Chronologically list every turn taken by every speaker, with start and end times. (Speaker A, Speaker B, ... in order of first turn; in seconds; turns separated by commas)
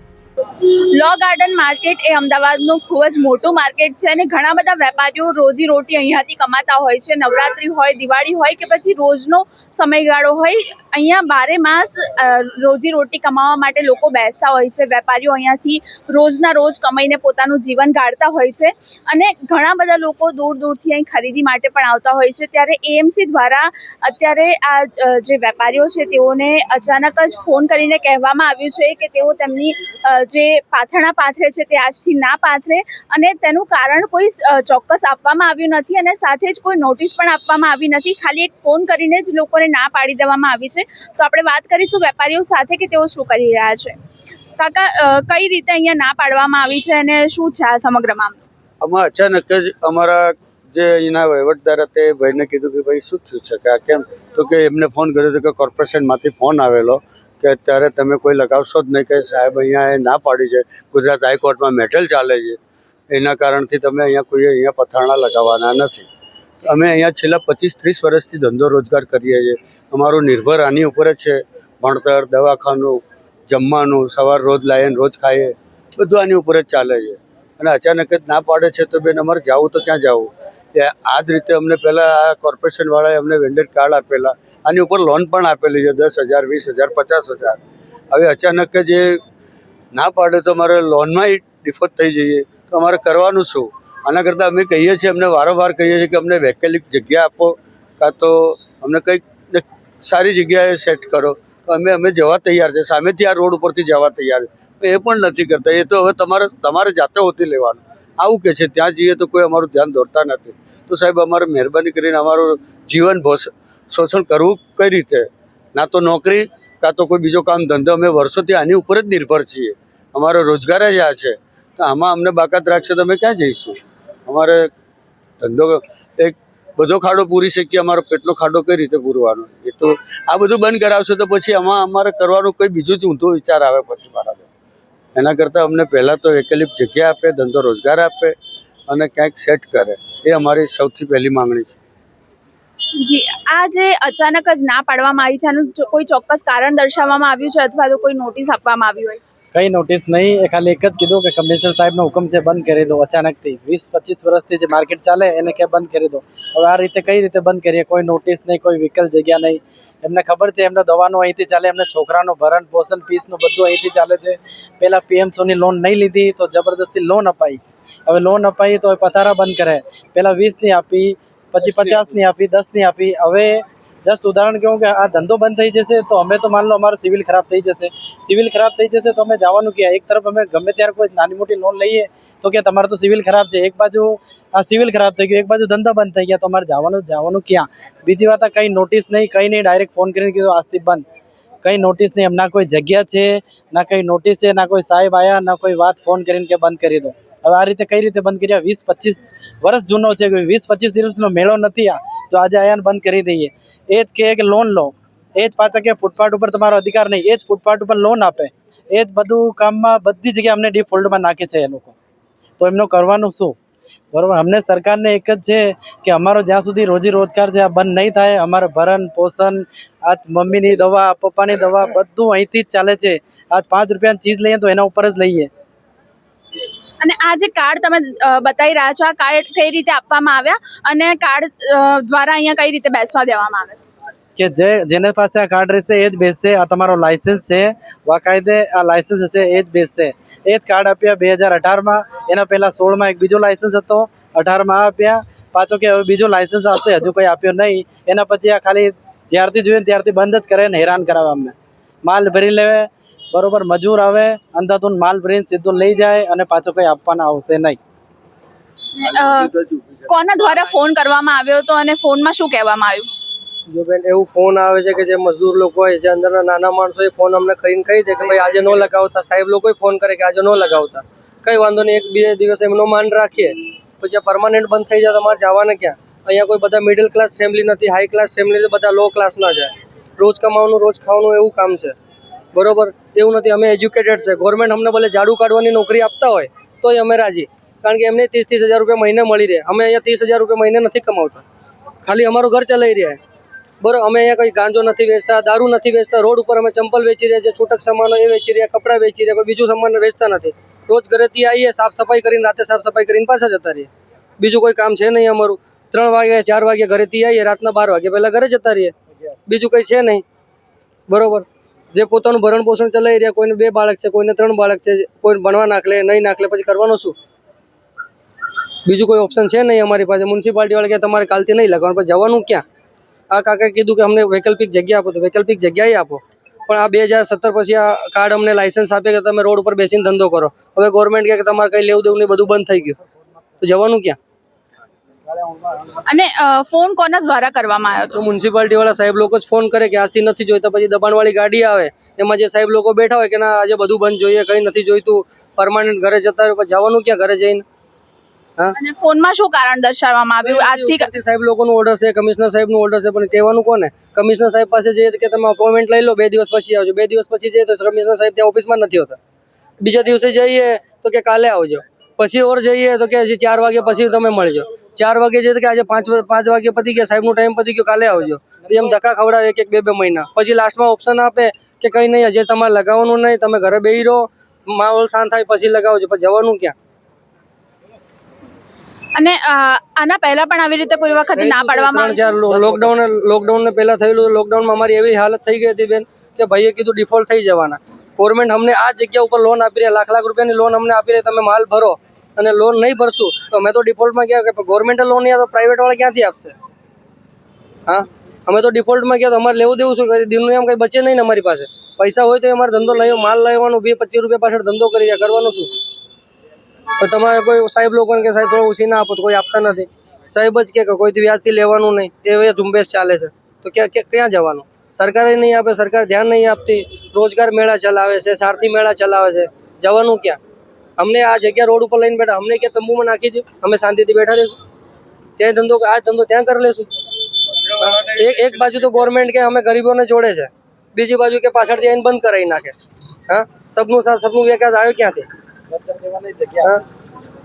Speaker A: 1.0-43.9, Speaker A: 44.6-48.4, Speaker B: 48.8-62.6, Speaker B: 63.1-66.1, Speaker B: 66.6-87.6, Speaker B: 88.1-89.2, Speaker B: 89.9-124.7, Speaker B: 125.4-134.4, Speaker B: 135.2-138.3, Speaker B: 138.9-141.8, Speaker A: 143.0-149.2, Speaker C: 149.5-191.0, Speaker C: 191.6-211.9, Speaker C: 212.6-213.5, Speaker C: 214.1-225.5, Speaker A: 227.0-233.8, Speaker C: 234.4-251.5, Speaker C: 252.0-257.8, Speaker A: 259.0-259.5, Speaker A: 260.1-263.1, Speaker D: 263.7-281.9, Speaker D: 282.5-291.4, Speaker D: 292.0-293.2, Speaker D: 293.8-303.9, Speaker D: 304.4-308.9, Speaker D: 309.5-310.2, Speaker D: 311.1-317.1, Speaker D: 318.9-322.6, Speaker D: 323.3-333.0, Speaker D: 333.6-334.2, Speaker C: 335.3-336.0, Speaker A: 336.1-338.2, Speaker D: 338.1-347.6, Speaker A: 348.8-351.1, Speaker D: 350.4-359.2, Speaker D: 359.8-376.7, Speaker A: 379.1-382.8, Speaker D: 381.4-396.6, Speaker D: 397.9-405.7, Speaker D: 407.0-420.4, Speaker D: 421.0-424.5, Speaker D: 425.4-426.9, Speaker D: 427.8-432.8, Speaker D: 433.3-435.2, Speaker C: 435.7-436.8